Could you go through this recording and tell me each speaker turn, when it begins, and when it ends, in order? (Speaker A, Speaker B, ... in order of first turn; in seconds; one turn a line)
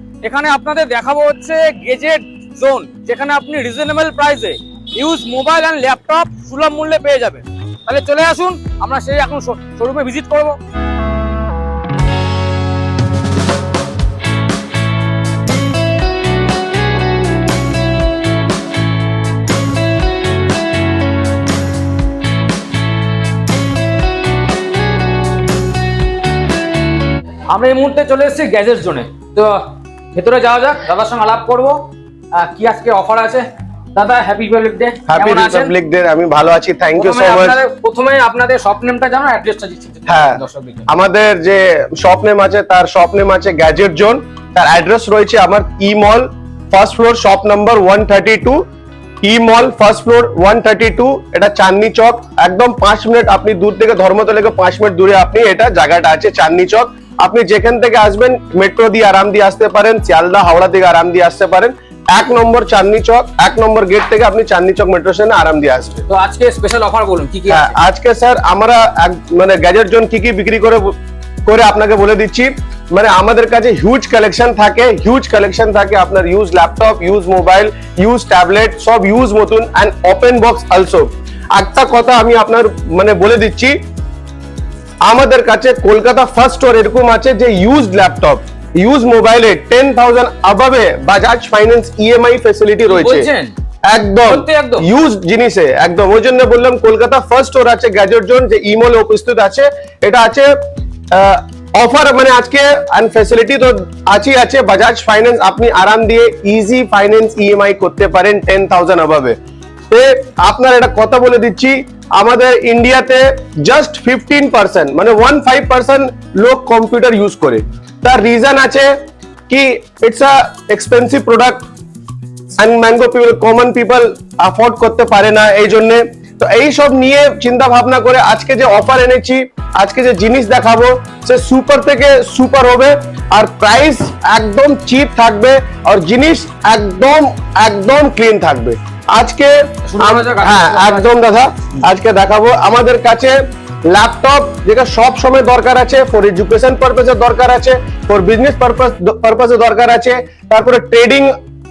Speaker A: 0.2-10.6
Speaker A: 27.5-31.8
Speaker A: 32.3-35.7
Speaker B: 35.1-37.6
Speaker A: 37.0-40.9
Speaker B: 40.1-48.6
Speaker B: 49.2-66.0
Speaker A: 66.1-67.7
Speaker B: 67.5-83.8
Speaker B: 85.0-93.3
Speaker A: 92.9-93.5
Speaker B: 93.9-100.6
Speaker A: 94.2-94.9
Speaker B: 101.1-109.4
Speaker B: 109.9-118.9
Speaker B: 119.5-121.7
Speaker B: 122.6-151.3
Speaker A: 139.8-141.1